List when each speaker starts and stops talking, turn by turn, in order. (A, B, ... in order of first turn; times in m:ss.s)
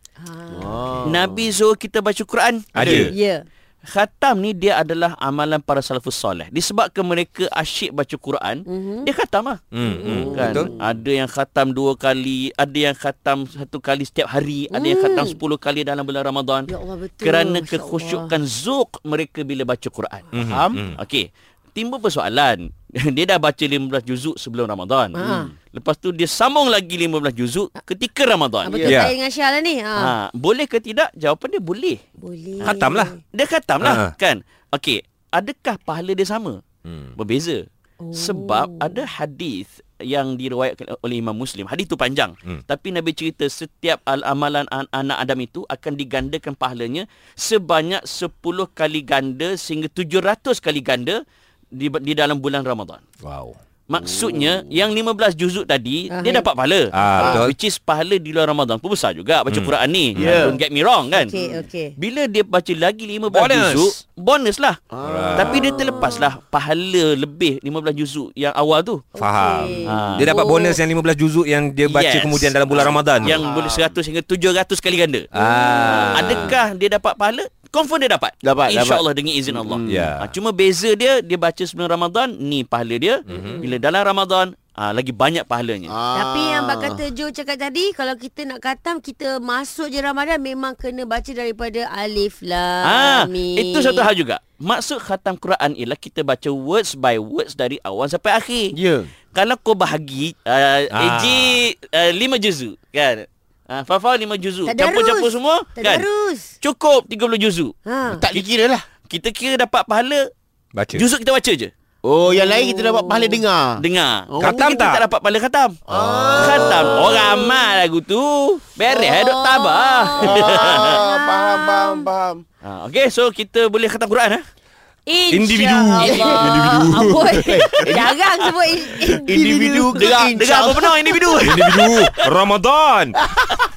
0:00.2-0:01.0 A
0:00.5-0:01.5 B
0:01.0-0:03.1 C
0:02.7-0:03.1 D
0:02.9-0:03.4 A
0:03.9-0:20.4 C
0:08.7-0:09.1 A
0:09.7-0:10.7 D
0:09.8-0:10.7 A
0:10.0-0:10.7 B
0:14.7-0:15.4 A
0:16.7-0:18.3 A
0:20.3-0:21.0 D
0:20.4-0:20.8 B
0:20.9-0:28.8 C
0:25.1-0:25.5 A
0:25.2-0:25.5 B
0:28.6-0:30.1 A
0:28.7-0:29.0 B
0:28.8-0:29.1 D
0:30.0-0:32.0 C
0:32.2-0:33.2 A
0:32.6-0:36.6 C
0:32.6-0:33.1 D
0:33.8-0:34.1 D
0:36.8-0:37.1 D
0:37.2-0:51.2 C
0:38.0-0:39.0 A
0:51.7-0:53.0 C
0:53.2-0:53.6 D
0:53.9-1:01.3 C
0:53.9-0:54.8 B
0:56.1-0:56.4 A
0:56.9-0:57.5 D
0:57.2-0:57.4 B
0:59.5-1:00.5 D
1:00.2-1:00.6 B
1:01.1-1:01.9 A
1:01.3-1:01.6 B
1:02.0-1:04.8 C
1:03.3-1:04.0 D
1:04.9-1:05.9 B
1:05.0-1:05.7 D
1:05.4-1:09.1 C
1:05.5-1:06.3 A
1:09.2-1:10.8 A
1:09.2-1:13.4 D
1:09.8-1:10.3 C
1:11.8-1:15.3 C
1:13.2-1:14.0 B
1:15.3-1:16.2 A
1:15.3-1:16.6 D
1:15.8-1:25.9 C
1:16.2-1:16.5 B
1:18.4-1:20.1 B
1:19.9-1:20.3 D
1:23.3-1:23.6 D
1:23.3-1:23.7 A
1:25.9-1:27.0 B
1:26.1-1:34.1 A
1:32.8-1:38.8 C
1:38.7-1:39.1 B
1:39.3-1:46.1 C
1:40.9-1:41.6 D
1:44.6-1:46.5 A
1:46.6-1:47.7 C
1:47.8-1:48.2 A
1:48.0-1:48.8 B
1:49.1-1:50.3 C
1:50.7-1:51.1 D
1:50.9-1:51.7 C
1:52.0-1:54.8 B
1:52.3-1:53.4 A
1:53.8-2:01.0 C
1:54.4-1:55.0 D
1:55.9-1:57.5 B
1:58.9-2:02.1 A
2:00.2-2:02.4 B
2:02.6-2:04.4 C
2:05.1-2:09.4 A
2:05.3-2:07.9 D
2:06.0-2:08.2 B
2:06.0-2:06.5 C
2:09.2-2:11.4 B
2:09.3-2:12.3 C
2:11.4-2:13.2 D